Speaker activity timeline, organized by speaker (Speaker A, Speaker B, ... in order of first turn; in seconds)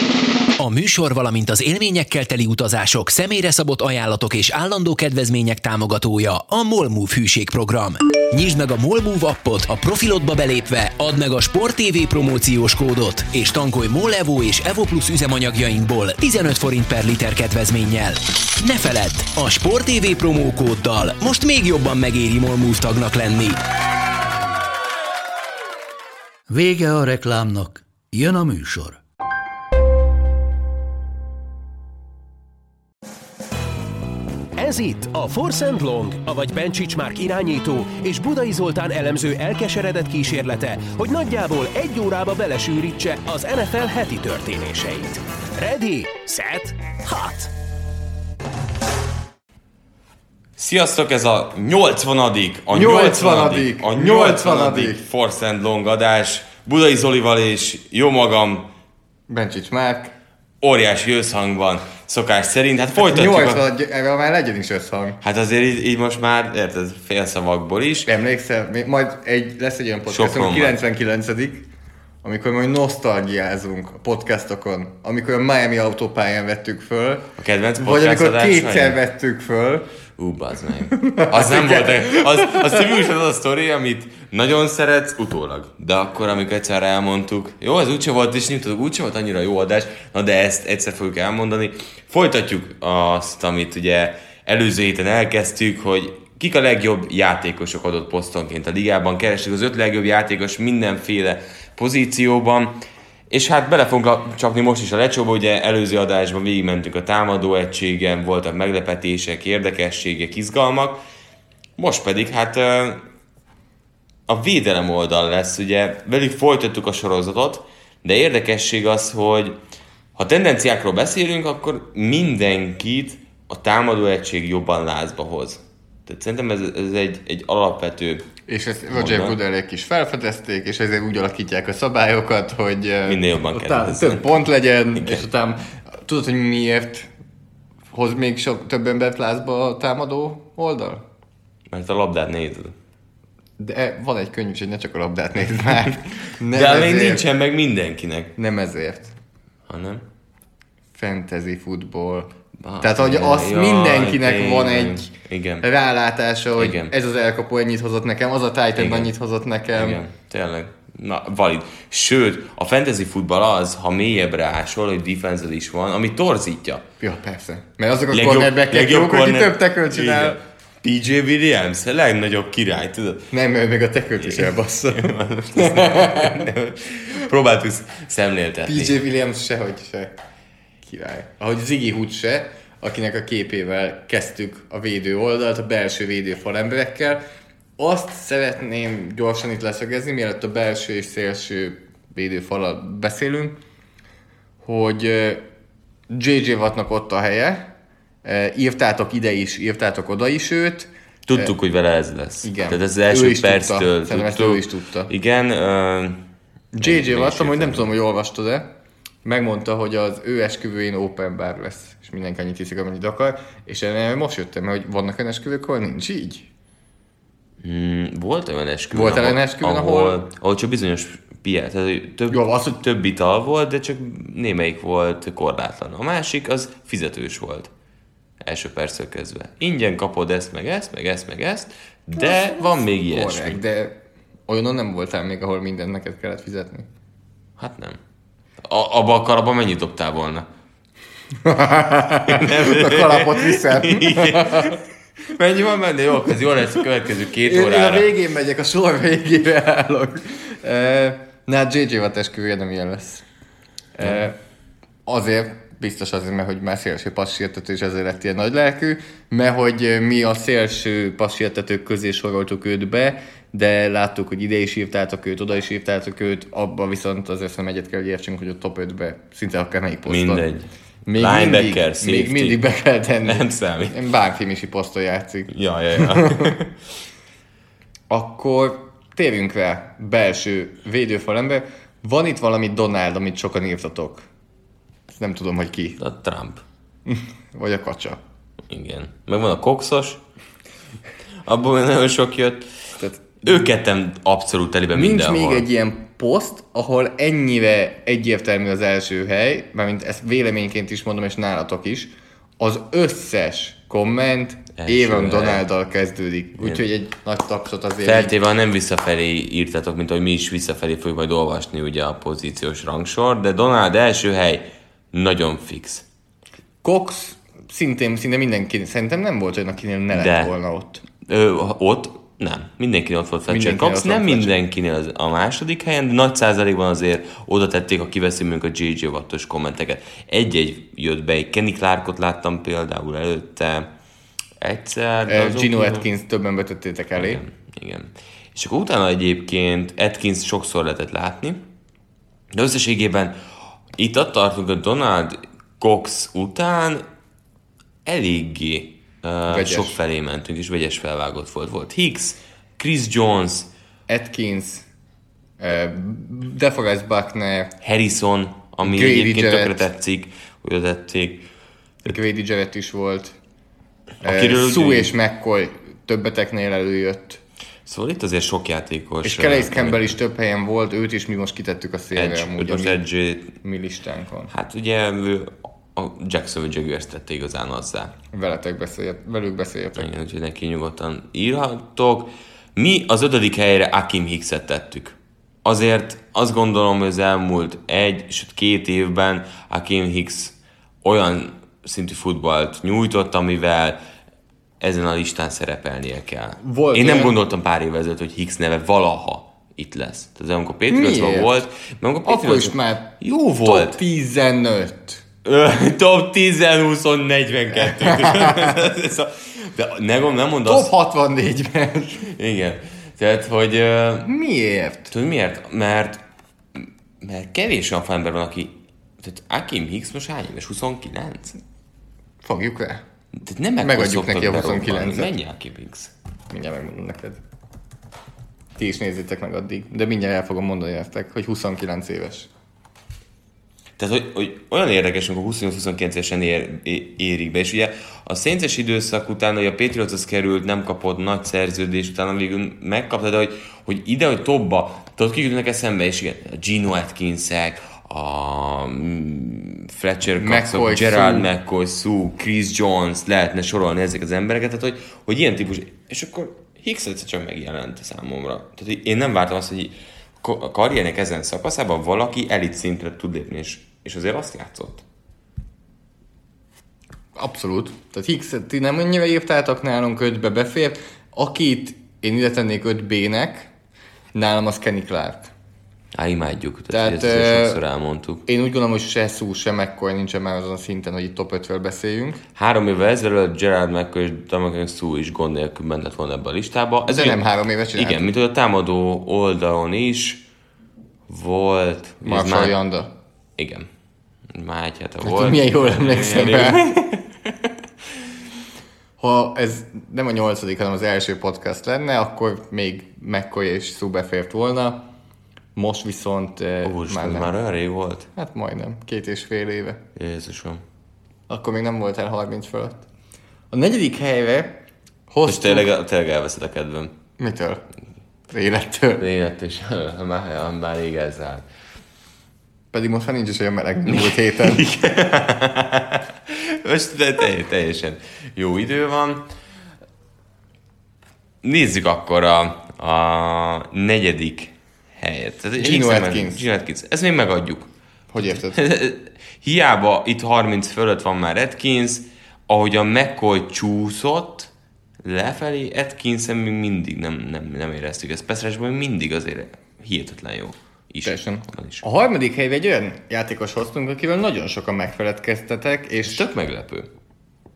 Speaker A: 0.6-23.6
Speaker B: 26.5-29.0
Speaker C: 34.6-47.5
Speaker D: 50.6-58.7, 60.6-63.6, 65.2-68.1, 70.1-70.8, 77.4-79.0, 80.2-111.0, 111.8-113.0, 114.3-119.6, 120.1-128.3, 128.9-129.4, 133.1-134.4, 134.9-135.2, 141.7-142.7, 146.5-148.3, 149.7-150.0, 152.6-155.7, 156.6-156.9, 158.8-159.1, 159.7-166.8, 168.1-173.3, 174.2-179.0, 201.3-206.2, 206.8-207.9, 217.6-227.7, 228.4-233.6, 237.6-238.0, 238.6-240.5, 242.2-248.1, 270.1-272.6, 273.2-273.9, 275.5-276.7, 286.0-286.6, 288.7-290.2, 291.4-292.7, 293.4-295.6, 304.8-305.6, 308.0-316.0, 320.1-320.5, 321.3-333.9, 334.6-336.1, 337.2-341.6, 342.5-343.4, 344.0-347.0, 348.1-353.7, 357.8-361.5, 364.2-365.1, 367.9-370.1, 372.1-373.5, 374.5-378.1, 379.9-394.0, 394.8-404.0, 405.4-410.9, 412.3-414.3, 415.1-416.2, 416.7-421.6, 423.3-426.1, 434.0-465.0, 476.1-478.4, 482.6-487.4, 487.9-490.4, 491.3-492.8, 493.6-493.9, 494.5-497.0, 506.8-508.3, 510.2-510.8, 515.5-517.1, 519.2-521.6, 524.1-529.5, 531.6-537.9, 538.4-544.7, 545.2-552.0, 556.2-557.1
Speaker E: 52.7-55.0, 59.3-60.1, 63.0-65.2, 68.0-71.7, 72.2-77.3, 77.8-79.8, 80.9-82.9, 128.5-137.1, 137.9-141.0, 143.6-147.2, 148.4-149.1, 151.0-155.1, 155.6-160.0, 167.0-170.4, 173.3-176.5, 178.6-180.1, 180.9-187.2, 187.8-193.6, 194.6-195.4, 196.1-197.7, 198.2-201.5, 202.4-205.1, 206.7-208.7, 209.2-216.5, 218.9-220.2, 222.3-222.8, 232.2-234.0, 234.5-236.9, 241.4-244.8, 247.4-253.2, 254.0-254.3, 255.1-270.4, 271.1-276.5, 278.1-284.2, 285.1-286.0, 287.1-288.2, 292.9-293.6, 294.9-308.3, 316.8-321.0, 323.5-324.5, 335.3-337.4, 349.5-350.0, 354.1-354.9, 355.6-357.7, 358.8-359.9, 362.1-363.4, 364.2-367.4, 369.2-373.0, 373.6-374.5, 378.3-380.1, 396.6-397.4, 400.9-401.6, 402.2-405.2, 407.9-408.8, 410.6-412.3, 414.2-415.1, 422.4-423.0, 423.8-425.3, 426.5-427.4, 428.8-432.5, 450.4-451.5, 467.4-473.7, 474.3-475.5, 476.9-477.8, 478.4-482.4, 487.1-488.3, 492.2-493.1, 495.2-497.0, 499.2-505.1, 505.8-507.5, 508.3-510.0, 511.5-513.0, 513.7-514.8, 515.3-515.9, 517.4-517.8, 518.5-519.2, 522.9-524.9, 535.8-536.6, 538.3-538.8, 551.2-556.5